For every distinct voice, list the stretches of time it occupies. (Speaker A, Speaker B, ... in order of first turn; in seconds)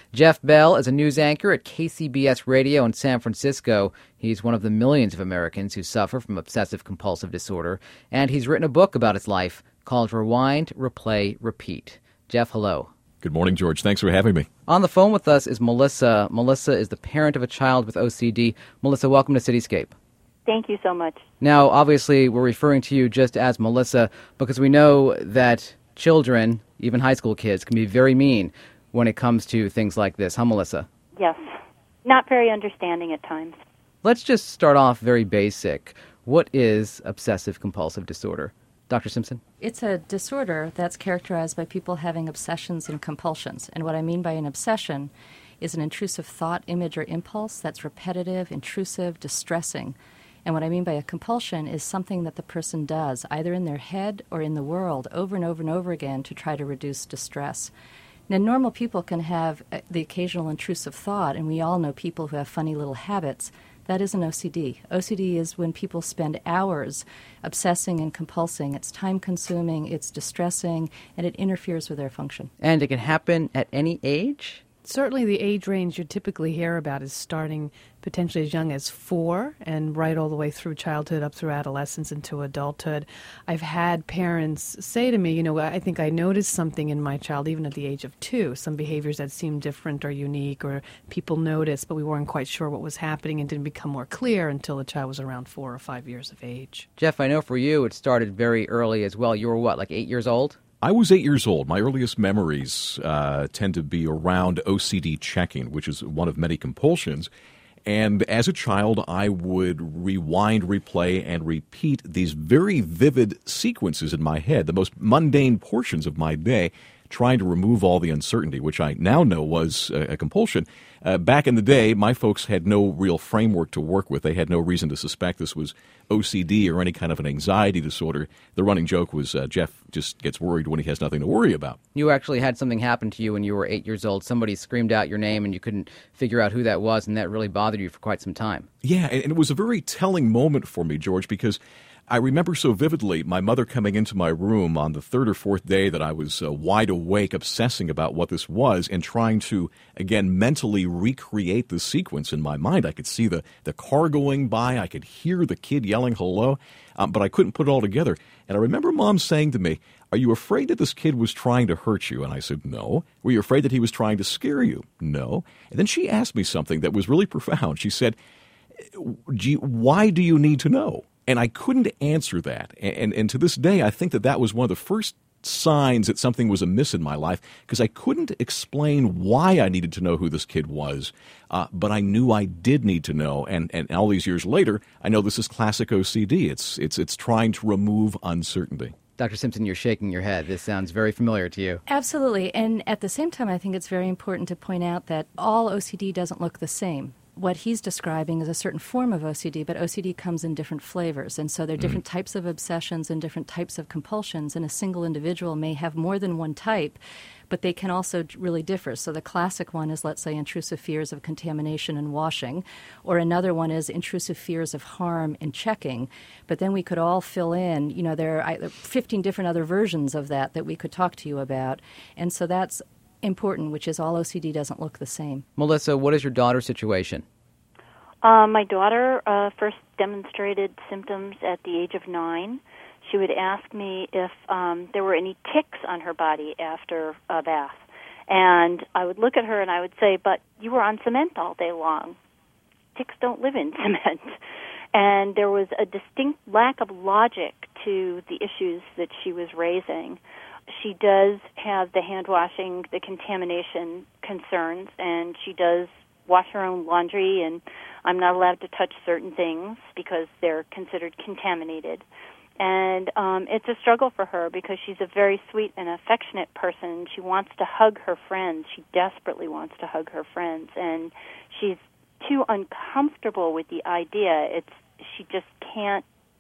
Speaker A: 0.1-12.9, 14.7-19.9, 21.4-30.9, 34.0-39.4, 72.6-74.6, 97.0-100.6, 131.9-138.7, 189.2-191.8, 225.6-227.2
Speaker B: 13.2-14.5, 100.8-107.3, 107.9-131.8, 138.8-168.2, 168.9-188.9
Speaker C: 20.5-21.2, 31.2-33.5, 228.2-242.2, 243.0-244.4, 244.9-262.0, 262.6-276.0
Speaker D: 39.6-57.7, 58.3-72.5, 191.9-207.0, 207.5-225.4
Speaker E: 74.8-96.9